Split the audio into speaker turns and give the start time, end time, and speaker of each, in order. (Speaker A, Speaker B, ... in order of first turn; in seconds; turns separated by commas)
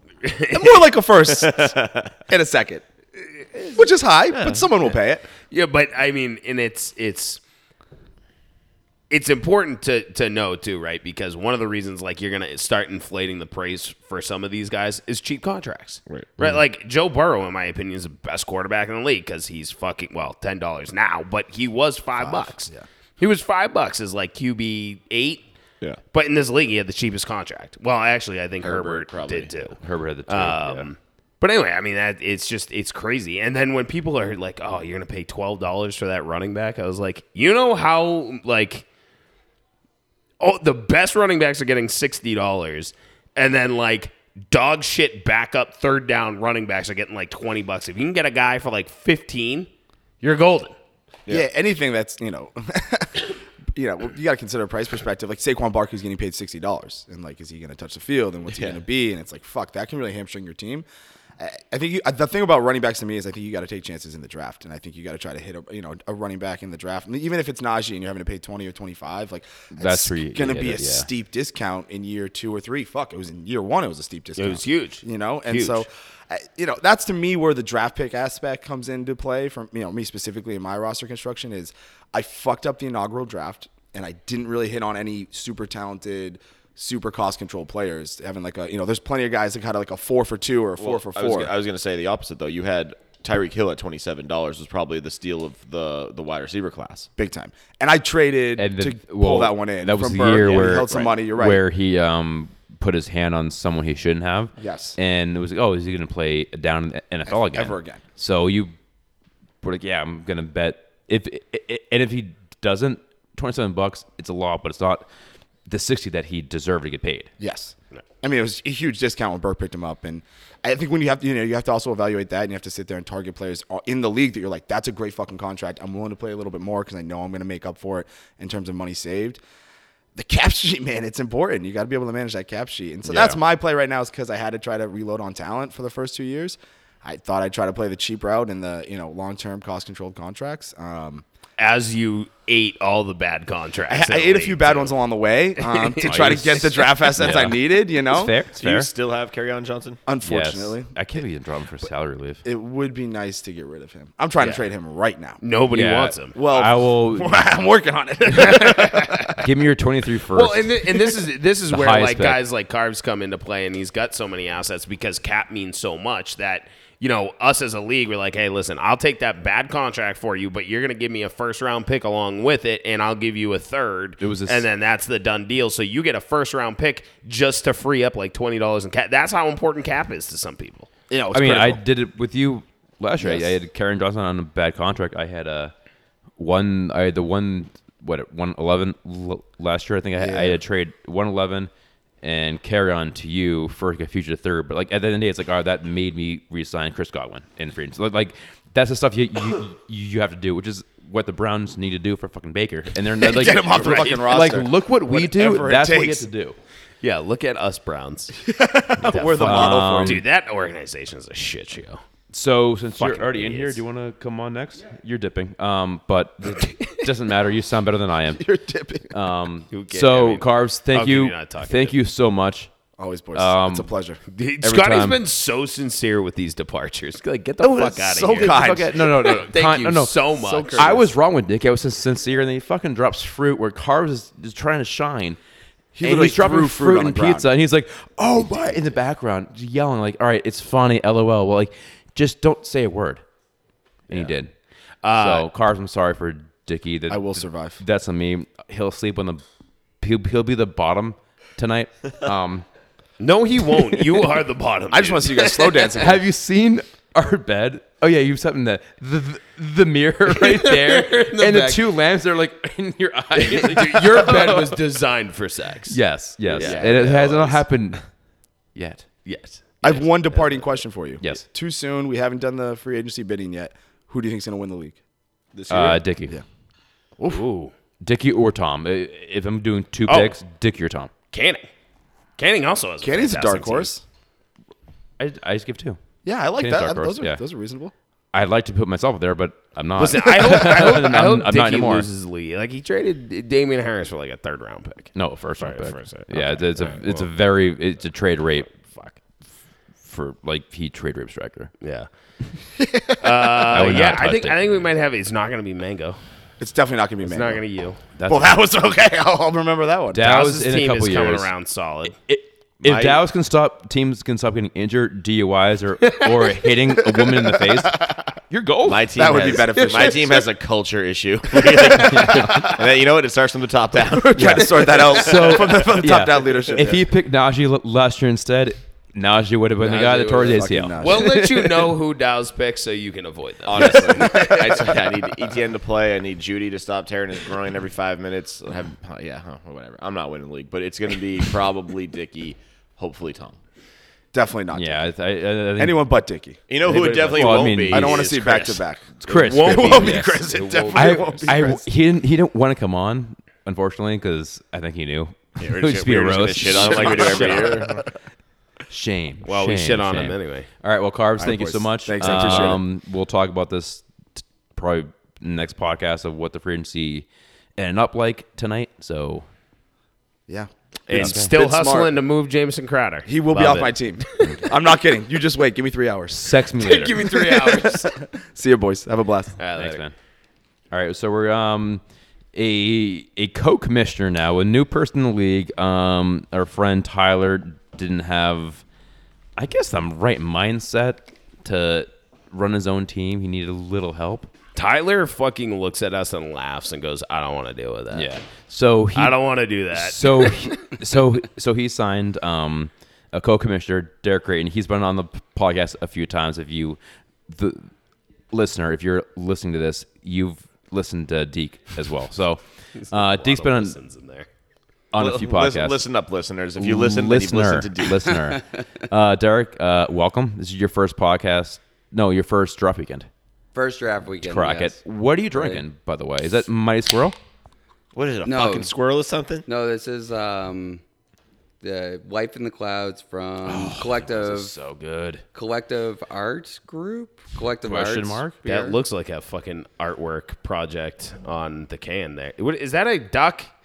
Speaker A: 0.2-0.9, Speaker B: 0.5-1.8, Speaker C: 1.3-2.2, Speaker B: 2.3-2.8, Speaker B: 3.7-5.2, Speaker A: 5.5-7.4, Speaker A: 9.1-25.4, Speaker C: 16.1-16.6, Speaker B: 22.2-22.8, Speaker A: 26.1-29.8, Speaker C: 28.6-29.6, Speaker D: 29.8-30.9, Speaker A: 30.3-38.8, Speaker A: 40.4-49.7, Speaker A: 50.2-50.7, Speaker B: 51.3-60.9, Speaker C: 58.5-58.8, Speaker B: 61.4-91.5, Speaker D: 69.8-71.1, Speaker A: 74.3-75.9, Speaker C: 90.8-97.1, Speaker B: 97.2-101.6, Speaker D: 98.6-108.7, Speaker B: 104.6-105.0, Speaker B: 107.3-108.0, Speaker D: 109.6-115.1, Speaker D: 115.7-117.3, Speaker B: 117.4-129.4, Speaker B: 130.1-141.2, Speaker D: 133.1-133.4, Speaker A: 141.6-144.9, Speaker B: 143.9-148.4, Speaker A: 145.6-147.1, Speaker D: 146.0-148.9, Speaker C: 148.5-150.0, Speaker B: 150.1-150.9, Speaker D: 150.2-152.4, Speaker B: 152.4-155.4, Speaker A: 154.4-154.7, Speaker A: 155.4-156.3, Speaker D: 155.7-157.4, Speaker B: 156.3-159.4, Speaker A: 158.3-159.3, Speaker D: 159.4-160.8, Speaker A: 160.3-180.9, Speaker D: 161.7-162.4, Speaker D: 174.2-174.6, Speaker B: 181.1-181.8, Speaker D: 181.3-185.7, Speaker B: 183.2-183.6, Speaker D: 186.4-191.7, Speaker B: 190.2-190.6, Speaker D: 192.2-206.6, Speaker B: 203.2-206.3, Speaker A: 203.7-204.2, Speaker A: 207.0-208.3, Speaker B: 208.4-210.2, Speaker A: 209.0-212.0, Speaker D: 209.3-210.2, Speaker D: 212.3-218.4, Speaker A: 213.0-213.8, Speaker B: 218.4-219.1, Speaker D: 219.1-222.7, Speaker A: 219.7-221.9, Speaker B: 223.0-224.2, Speaker D: 223.3-223.9, Speaker A: 224.3-231.1, Speaker D: 224.6-225.2, Speaker D: 227.6-235.4, Speaker B: 228.0-229.0, Speaker B: 230.4-231.1, Speaker B: 235.9-237.5, Speaker D: 236.0-243.2, Speaker D: 244.1-244.5, Speaker A: 245.0-245.5, Speaker D: 245.1-249.4, Speaker B: 247.1-247.8, Speaker D: 250.0-252.7, Speaker A: 253.2-255.9, Speaker B: 254.9-256.2, Speaker D: 255.9-264.7, Speaker A: 260.3-261.9, Speaker A: 263.3-267.6, Speaker D: 265.9-268.1, Speaker C: 266.5-266.9, Speaker D: 268.7-269.1, Speaker A: 269.2-270.7, Speaker B: 269.8-275.0, Speaker D: 271.2-271.4, Speaker C: 275.5-276.0, Speaker D: 275.7-276.3, Speaker B: 277.2-277.4, Speaker A: 277.2-277.7, Speaker D: 278.0-281.1, Speaker A: 280.1-280.4, Speaker A: 281.3-281.7, Speaker A: 282.4-283.9, Speaker B: 283.0-284.0, Speaker D: 285.2-286.0, Speaker B: 286.2-287.9, Speaker D: 286.5-287.4, Speaker D: 288.3-292.1, Speaker A: 290.0-297.3, Speaker D: 295.1-298.7, Speaker A: 298.7-299.1, Speaker D: 300.0-301.7, Speaker A: 301.8-302.1, Speaker B: 302.8-303.7, Speaker A: 303.2-306.2, Speaker D: 303.7-304.8, Speaker B: 306.6-307.6, Speaker A: 307.2-308.0, Speaker D: 308.2-308.6, Speaker B: 308.3-310.3, Speaker D: 310.1-311.5, Speaker A: 310.2-312.1, Speaker D: 312.2-319.6, Speaker C: 312.8-313.2, Speaker A: 316.1-316.7, Speaker B: 317.6-318.2, Speaker C: 318.9-325.0, Speaker B: 319.1-320.5, Speaker A: 319.8-320.1, Speaker B: 321.6-322.6, Speaker D: 321.9-322.8, Speaker B: 324.1-327.1, Speaker D: 324.4-331.9, Speaker B: 329.9-331.5, Speaker A: 331.0-334.9, Speaker C: 333.6-343.6, Speaker B: 344.3-345.1, Speaker D: 344.7-346.1, Speaker B: 345.8-351.9, Speaker C: 346.7-348.8, Speaker D: 347.2-348.3, Speaker D: 349.2-357.9, Speaker A: 349.3-351.3, Speaker C: 355.6-358.0, Speaker A: 356.8-357.6, Speaker B: 356.8-358.1, Speaker D: 358.9-367.2, Speaker A: 359.4-360.7, Speaker B: 361.4-362.8, Speaker D: 367.8-369.4, Speaker B: 370.5-372.1, Speaker A: 371.1-374.7, Speaker D: 371.1-371.6, Speaker B: 373.2-376.6, Speaker D: 376.3-377.3, Speaker A: 376.8-378.1, Speaker B: 377.1-379.6, Speaker A: 379.6-380.1, Speaker D: 379.7-380.1, Speaker D: 380.9-382.0, Speaker D: 382.5-388.8, Speaker D: 389.6-394.5, Speaker A: 394.7-398.3, Speaker D: 398.1-399.4, Speaker A: 399.1-400.8, Speaker D: 399.9-407.9, Speaker D: 408.5-413.9, Speaker A: 413.0-414.5, Speaker D: 415.1-416.0, Speaker C: 415.2-418.3, Speaker D: 416.8-423.3, Speaker E: 423.7-425.0, Speaker D: 424.4-427.4, Speaker E: 425.5-425.8, Speaker C: 428.1-429.6, Speaker E: 428.4-428.9, Speaker E: 429.6-431.0, Speaker E: 431.8-434.7, Speaker D: 433.6-435.4, Speaker E: 435.5-439.0, Speaker D: 437.8-438.6, Speaker A: 438.6-443.7